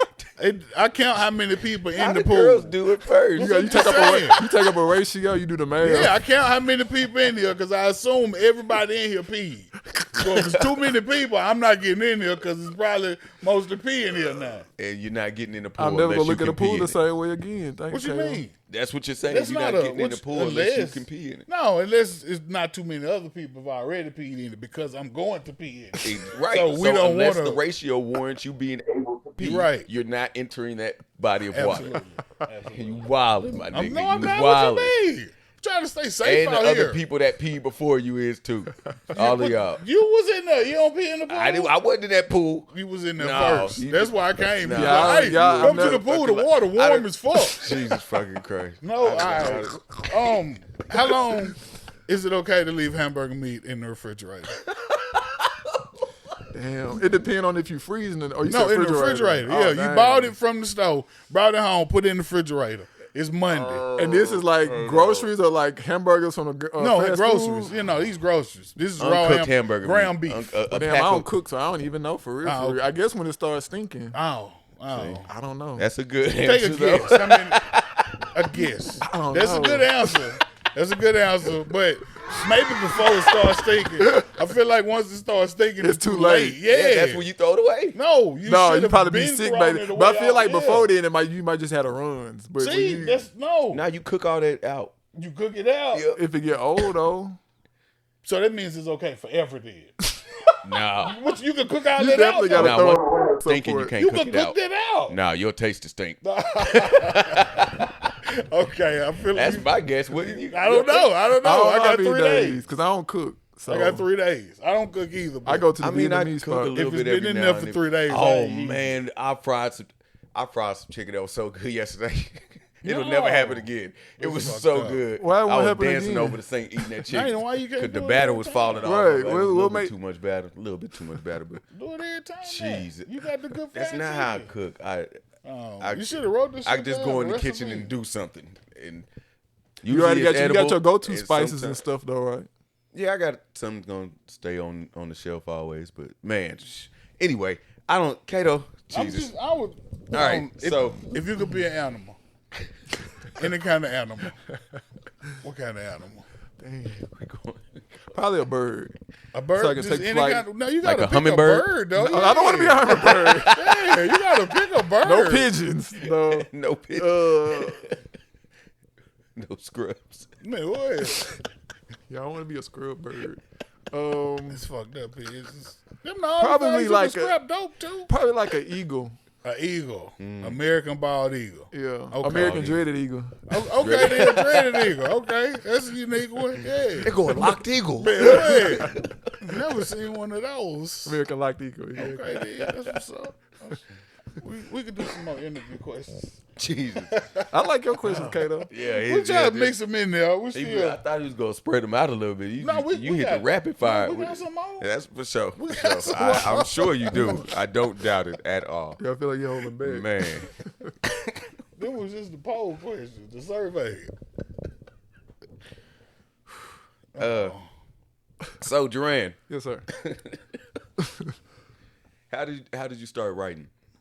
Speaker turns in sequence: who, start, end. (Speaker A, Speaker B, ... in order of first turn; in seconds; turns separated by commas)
Speaker A: 0.4-2.8, Speaker B: 1.9-4.5, Speaker A: 3.4-4.4, Speaker C: 3.4-6.2, Speaker A: 5.8-14.7, Speaker C: 10.0-10.5, Speaker B: 14.8-17.0, Speaker C: 15.8-18.4, Speaker A: 17.9-18.5, Speaker B: 18.7-21.5, Speaker A: 19.3-27.6, Speaker B: 26.0-32.0, Speaker A: 29.4-29.9, Speaker A: 31.5-33.1, Speaker B: 32.7-34.9, Speaker A: 33.7-37.0, Speaker B: 36.2-39.8, Speaker A: 39.1-41.7, Speaker B: 41.3-50.3, Speaker A: 42.7-47.8, Speaker C: 44.7-46.5, Speaker A: 48.8-54.6, Speaker C: 56.5-60.3, Speaker A: 58.4-63.9, Speaker B: 63.5-65.3, Speaker C: 64.0-67.7, Speaker A: 66.8-70.6, Speaker B: 69.0-71.3, Speaker C: 70.7-74.2, Speaker A: 72.4-72.8, Speaker A: 74.1-75.3, Speaker B: 74.9-75.2, Speaker C: 75.3-75.8, Speaker B: 75.8-78.0, Speaker A: 76.4-77.7, Speaker A: 78.3-87.3, Speaker C: 79.0-80.1, Speaker C: 84.0-84.3, Speaker C: 85.8-86.6, Speaker B: 86.6-88.0, Speaker A: 87.9-90.9, Speaker C: 88.4-93.2, Speaker A: 92.6-93.8, Speaker B: 93.7-95.0, Speaker A: 95.1-96.1, Speaker B: 95.9-96.2, Speaker C: 96.1-97.4, Speaker A: 98.2-99.9, Speaker B: 100.6-101.1, Speaker A: 101.0-103.0, Speaker C: 101.9-103.9, Speaker B: 102.5-107.8, Speaker A: 104.0-105.2, Speaker A: 106.2-112.7, Speaker B: 109.3-111.1, Speaker C: 111.4-114.0, Speaker A: 113.7-115.8, Speaker C: 115.4-116.7, Speaker B: 115.8-131.6, Speaker A: 116.7-118.9, Speaker A: 122.8-125.0, Speaker C: 125.2-126.4, Speaker A: 127.1-128.9, Speaker C: 128.8-129.9, Speaker A: 131.7-134.5, Speaker B: 132.4-133.1, Speaker B: 133.7-135.2, Speaker A: 135.4-137.9, Speaker B: 135.8-139.1, Speaker B: 139.8-141.8, Speaker C: 139.9-142.5, Speaker B: 142.9-149.3, Speaker A: 148.9-152.2, Speaker B: 150.1-151.1, Speaker A: 153.3-154.4, Speaker A: 155.4-156.2, Speaker C: 156.6-157.0, Speaker B: 156.8-157.8, Speaker C: 158.1-158.9, Speaker A: 159.3-165.5, Speaker C: 159.5-160.4, Speaker B: 160.8-161.7, Speaker C: 161.9-163.6, Speaker B: 162.9-164.4, Speaker C: 165.0-167.8, Speaker B: 166.0-168.0, Speaker B: 169.3-170.3, Speaker A: 170.4-171.3, Speaker C: 172.1-174.6, Speaker A: 174.5-178.1, Speaker C: 176.4-177.4, Speaker C: 178.1-179.2, Speaker A: 179.4-182.6, Speaker B: 180.2-180.6, Speaker C: 181.7-183.4, Speaker B: 182.2-182.8, Speaker A: 183.5-187.2, Speaker B: 183.8-184.9, Speaker B: 186.9-189.1, Speaker C: 187.3-187.6, Speaker A: 188.0-191.2, Speaker C: 188.2-188.8, Speaker C: 191.0-192.2, Speaker A: 191.9-193.8, Speaker B: 192.0-193.0, Speaker A: 194.4-197.5, Speaker B: 196.6-197.2, Speaker C: 197.5-198.7, Speaker A: 198.0-201.0, Speaker B: 198.7-199.7, Speaker B: 200.5-209.0, Speaker A: 202.6-204.9, Speaker A: 205.6-207.5, Speaker C: 209.0-210.9, Speaker B: 209.8-210.5, Speaker A: 211.8-214.1, Speaker A: 217.1-217.7, Speaker B: 217.2-217.6, Speaker B: 218.6-219.4, Speaker C: 219.5-219.8, Speaker B: 219.9-220.6, Speaker B: 222.3-223.7